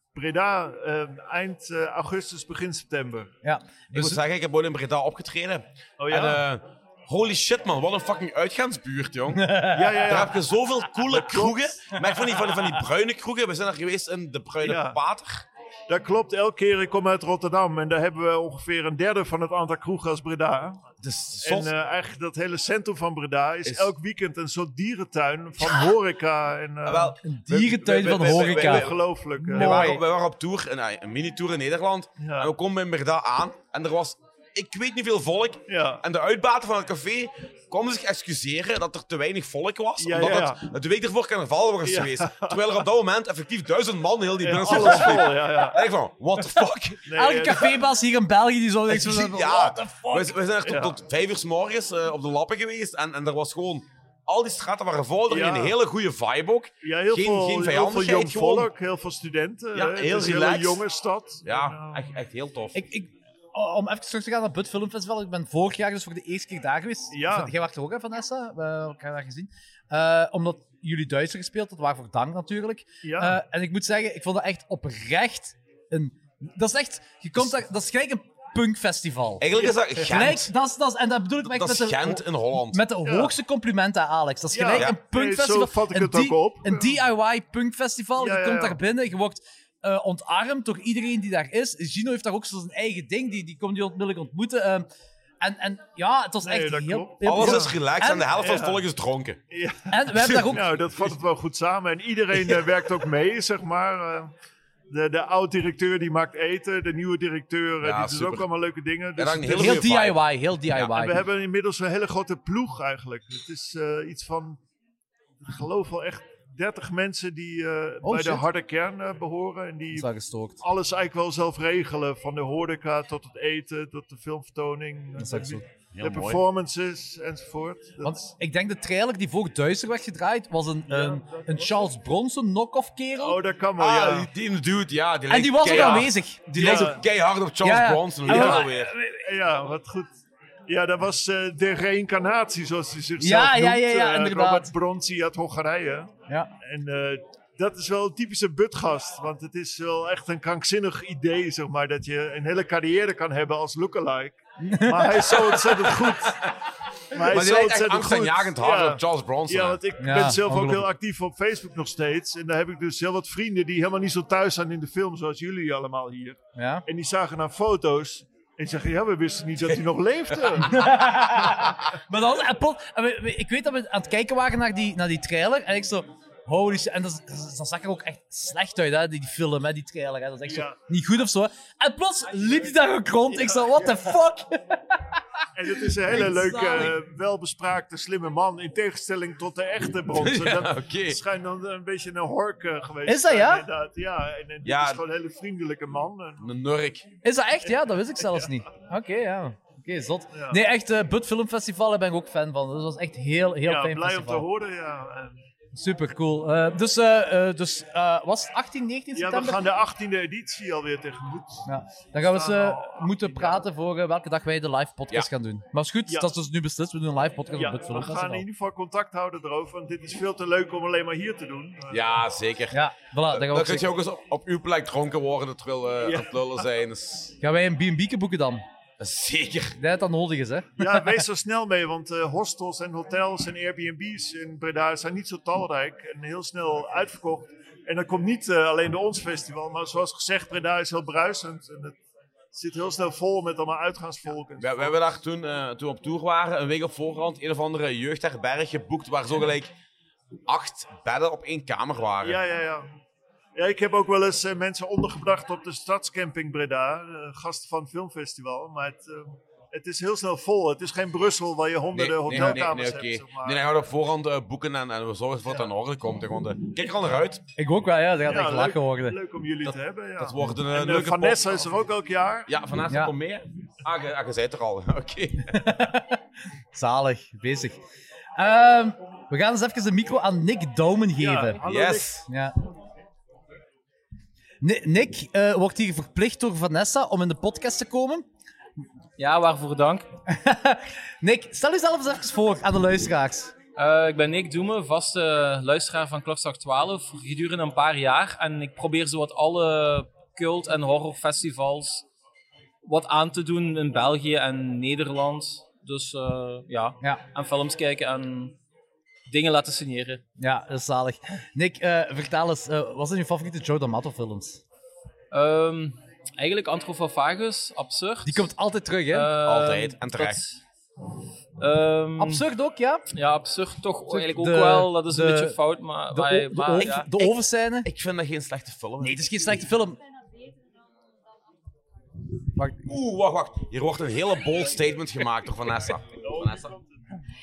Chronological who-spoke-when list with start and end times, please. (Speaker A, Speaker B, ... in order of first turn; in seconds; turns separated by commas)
Speaker A: 0.1-3.3, Speaker B: 3.4-4.2, Speaker C: 3.9-9.5, Speaker A: 6.0-6.4, Speaker B: 9.3-10.2, Speaker A: 9.7-10.4, Speaker C: 10.1-15.5, Speaker A: 11.1-11.6, Speaker A: 14.6-15.0, Speaker A: 15.9-20.8, Speaker C: 21.0-21.7, Speaker A: 21.4-27.2, Speaker C: 23.6-23.9, Speaker C: 26.9-29.0, Speaker B: 27.2-30.0, Speaker A: 27.8-29.9, Speaker C: 29.5-47.0, Speaker A: 32.2-32.5, Speaker A: 35.7-36.0, Speaker A: 40.0-40.6, Speaker A: 41.8-42.7, Speaker A: 44.4-45.8, Speaker B: 44.7-45.1, Speaker A: 47.1-47.8, Speaker B: 47.1-50.4, Speaker C: 48.9-58.7, Speaker A: 50.6-51.0, Speaker A: 55.3-55.8, Speaker A: 56.8-62.0, Speaker C: 59.7-60.8, Speaker C: 61.5-62.8, Speaker B: 62.7-79.5, Speaker A: 67.1-67.5, Speaker A: 73.0-73.4, Speaker C: 79.4-80.5, Speaker A: 79.6-80.1, Speaker B: 80.0-94.9, Speaker C: 81.5-82.8, Speaker A: 83.0-83.3, Speaker A: 84.5-87.0, Speaker A: 88.2-88.8, Speaker B: 95.4-98.3, Speaker A: 96.4-97.7, Speaker C: 97.2-99.4, Speaker A: 98.4-98.8, Speaker A: 99.5-104.3, Speaker B: 99.9-100.6, Speaker A: 104.9-109.8, Speaker C: 107.8-108.5, Speaker C: 109.2-110.2, Speaker B: 109.5-111.2, Speaker A: 110.9-114.6, Speaker A: 115.5-120.1, Speaker B: 118.0-118.4, Speaker B: 120.0-120.6, Speaker A: 120.6-128.2, Speaker B: 125.2-125.6, Speaker C: 125.9-126.4, Speaker B: 128.0-133.4, Speaker A: 130.9-131.8, Speaker A: 133.2-134.3, Speaker C: 133.8-138.9, Speaker B: 135.3-137.0, Speaker A: 135.7-137.0, Speaker B: 137.6-139.2, Speaker A: 138.3-138.7, Speaker A: 139.2-140.1, Speaker A: 140.7-146.1, Speaker B: 143.2-144.7, Speaker A: 146.6-156.5, Speaker B: 154.6-155.2, Speaker A: 157.1-170.9, Speaker C: 157.3-159.8, Speaker B: 160.0-160.9, Speaker B: 166.6-166.8, Speaker B: 170.7-185.1, Speaker A: 180.5-180.8, Speaker A: 183.3-183.9, Speaker A: 185.6-196.4, Speaker B: 185.8-187.0, Speaker C: 190.1-191.2, Speaker B: 193.1-193.7, Speaker C: 194.6-195.0, Speaker C: 196.4-197.1, Speaker B: 197.2-204.4, Speaker A: 198.2-198.5, Speaker A: 200.3-200.6, Speaker A: 203.6-205.4, Speaker B: 205.8-209.6, Speaker A: 209.2-211.6, Speaker B: 211.7-218.4, Speaker A: 212.2-213.6, Speaker A: 217.6-222.1, Speaker C: 221.9-222.8, Speaker B: 222.7-223.9, Speaker C: 223.3-227.3, Speaker A: 226.0-226.3, Speaker B: 227.4-228.6, Speaker C: 229.0-229.8, Speaker B: 229.8-231.1, Speaker A: 230.8-241.9, Speaker A: 242.5-244.9, Speaker C: 244.6-249.7, Speaker C: 250.5-252.4, Speaker A: 252.2-252.9, Speaker A: 253.6-263.6, Speaker C: 261.9-267.4, Speaker B: 262.3-262.6, Speaker B: 267.6-269.2, Speaker A: 268.3-272.5, Speaker C: 269.6-271.8, Speaker C: 272.5-275.6, Speaker B: 275.5-276.1, Speaker B: 276.7-277.8, Speaker B: 278.4-281.6, Speaker A: 281.2-282.2, Speaker C: 281.6-282.2, Speaker B: 282.3-282.6, Speaker B: 284.6-288.2, Speaker D: 289.2-290.1, Speaker B: 290.3-293.5, Speaker D: 293.8-302.1, Speaker D: 302.9-308.6, Speaker D: 309.3-310.2, Speaker B: 310.4-314.6, Speaker D: 315.3-318.5, Speaker B: 318.2-319.3, Speaker D: 319.1-320.6, Speaker C: 319.4-320.4, Speaker D: 321.6-322.4, Speaker B: 322.2-323.0, Speaker D: 323.1-327.2, Speaker B: 324.1-325.6, Speaker B: 326.1-327.9, Speaker C: 327.8-329.3, Speaker B: 329.0-330.0, Speaker C: 332.9-336.7, Speaker A: 336.2-336.9